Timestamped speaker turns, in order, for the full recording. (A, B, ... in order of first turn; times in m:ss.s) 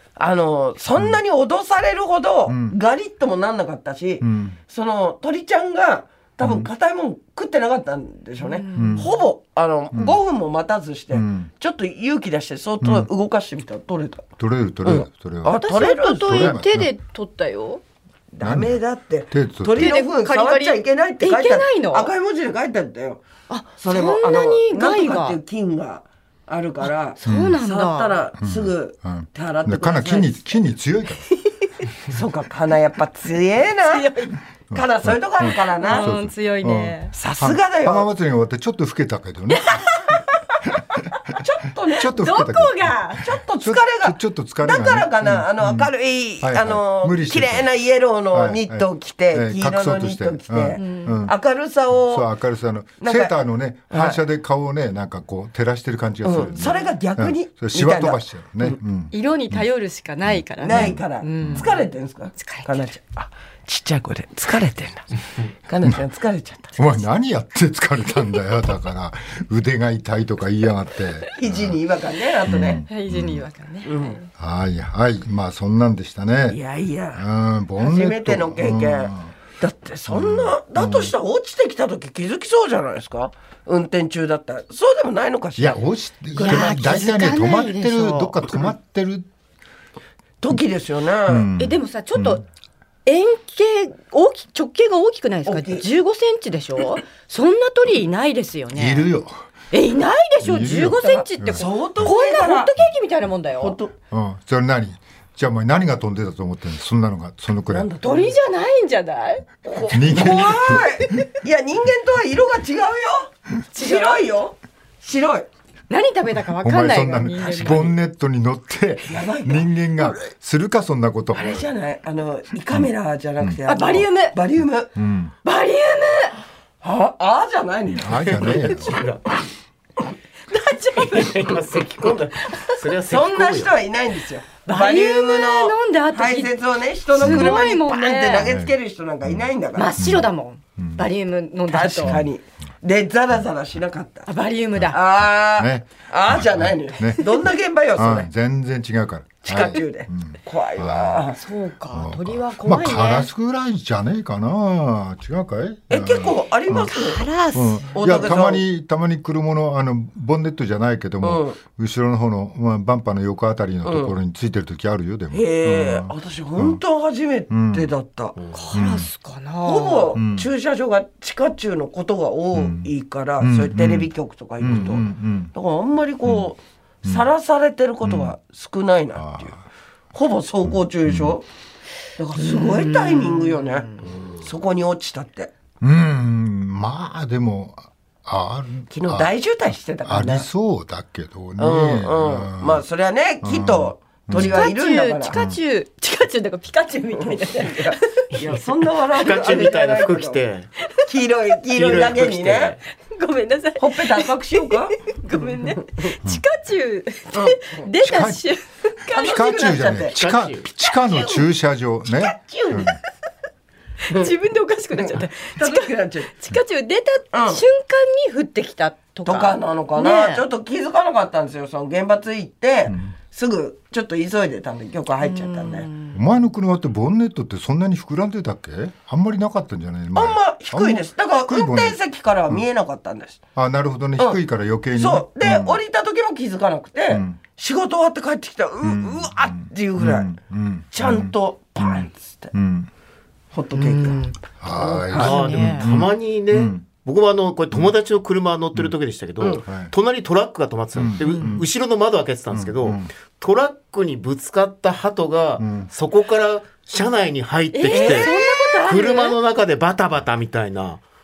0:00.2-0:14.3 A
0:02.5-0:02.8 B
0:04.2-0:04.6 B
0:06.4-0:06.7 B
0:08.4-0:09.1 C
0:08.7-0:09.1 B
0:09.9-0:10.2 B
0:11.1-0:11.5 B
0:12.8-0:13.1 B
0:14.4-0:16.9 B
0:14.8-0:16.6 A
0:15.5-0:17.8 C
0:18.3-0:23.2 A
0:18.4-0:18.8 B
0:19.3-0:20.0 B
0:19.8-0:22.1 C
0:23.5-0:25.4 C
0:23.8-0:30.4 A
0:26.8-0:28.2 C
0:27.2-0:27.6 B
0:28.4-0:31.2 B
0:32.1-0:34.1 A
0:33.8-0:34.4 C
0:34.7-0:39.8 B
0:34.7-0:36.1 A
0:35.8-0:37.1 C
0:37.1-0:38.1 A
0:39.5-0:40.6 C
0:40.7-0:41.4 B
0:41.3-0:42.2 A
0:41.9-0:47.7 B
0:42.0-0:43.3 C
0:43.1-0:52.3 A
0:48.3-0:51.4 B
0:50.8-0:51.3 C
0:51.9-0:59.6 B
0:53.0-0:53.4 A
0:53.9-0:54.2 A
0:56.2-0:58.8 A
0:56.6-0:56.8 C
0:59.1-1:02.8 C
1:00.3-1:01.7 B
1:00.6-1:05.1 A
1:05.6-1:06.9 A
1:06.8-1:11.8 B
1:11.3-1:12.8 A
1:12.5-1:13.4 B
1:12.8-1:14.3 C
1:13.8-1:14.2 A
1:14.4-1:16.6 B
1:16.5-1:17.2 A
1:17.1-1:19.3 B
1:17.8-1:25.8 A
1:20.1-1:21.1 B
1:25.6-1:29.3 B
1:26.3-1:27.1 A
1:26.4-1:28.4 C
1:30.4-1:31.5 A
1:31.3-1:32.4 B
1:31.6-1:32.4 C
1:33.0-1:39.1 C
1:35.4-1:35.8 A
1:38.7-1:39.3 B
1:39.7-1:43.8 C
1:40.4-1:42.1 B
1:40.7-1:42.7 A
1:43.6-1:43.9 A
1:44.1-1:47.9 B
1:47.7-1:48.4 A
1:48.0-1:49.5 C
1:49.6-1:55.5 A
1:49.9-1:51.1 B
1:53.7-1:54.2 C
1:55.9-1:58.0 C
1:56.6-2:01.6 B
1:59.1-1:59.7 A
2:01.3-2:04.9 A
2:03.7-2:04.4 C
2:05.0-2:05.3 B
2:05.4-2:06.4 C
2:06.8-2:08.7 A
2:08.0-2:09.0 B
2:08.3-2:09.2 D
2:10.5-2:11.6 C
2:11.0-2:13.8 D
2:12.4-2:12.8 C
2:13.0-2:20.0 A
2:14.6-2:16.5 C
2:17.1-2:18.5 C
2:17.2-2:17.6 B
2:18.4-2:19.4 B
2:19.7-2:22.2 C
2:20.0-2:21.1 B
2:21.7-2:24.3 A
2:22.0-2:22.3 B
2:24.3-2:25.0 C
2:24.7-2:31.3 B
2:24.9-2:28.3 A
2:29.4-2:31.4 A
2:31.3-2:33.3 C
2:31.9-2:37.0 B
2:35.9-2:37.3 A
2:36.8-2:38.4 C
2:37.5-2:46.8 B
2:37.9-2:38.6 A
2:41.2-2:41.6 A
2:43.8-2:44.1 A
2:45.3-2:48.4 A
2:47.5-2:47.9 B
2:48.5-2:50.2 C
2:48.7-2:49.1 B
2:49.6-2:59.5 A
2:50.1-2:50.5 B
2:52.5-2:55.5 B
2:58.0-2:58.3 B
2:59.2-2:59.6 B
3:00.1-3:01.4 A
3:00.7-3:01.3 B
3:02.2-3:05.5 A
3:02.4-3:04.1 C
3:05.8-3:09.3 B
3:08.9-3:10.5 A
3:10.0-3:12.8 B
3:11.6-3:15.4 A
3:13.4-3:14.7 B
3:14.3-3:18.4 C
3:15.3-3:15.6 B
3:17.2-3:20.4 A
3:18.4-3:20.7 D
3:21.0-3:22.8 A
3:21.7-3:22.8 D
3:23.0-3:29.8 C
3:23.8-3:25.0 A
3:27.3-3:27.9 A
3:28.0-3:28.4 B
3:29.1-3:30.2 A
3:29.1-3:33.0 B
3:30.2-3:30.6 D
3:31.1-3:31.4 A
3:32.4-3:33.0 C
3:34.0-3:40.4 C
3:35.0-3:36.3 A
3:37.3-3:37.6 A
3:39.2-3:45.9 A
3:42.9-3:43.1 B
3:45.2-3:46.2 C
3:46.1-3:52.0 B
3:50.1-3:53.4 A
3:53.5-3:55.8 B
3:55.0-4:00.3 A
3:57.1-3:57.4 B
3:58.8-4:02.9 B
4:00.9-4:02.5 A
4:03.5-4:04.2 A
4:03.7-4:05.9 C
4:04.6-4:06.8 B
4:05.1-4:21.0 D
4:09.6-4:09.9 B
4:11.0-4:11.7 B
4:11.2-4:11.6 C
4:12.5-4:13.1 B
4:15.6-4:15.9 B
4:17.7-4:19.4 C
4:17.9-4:18.8 A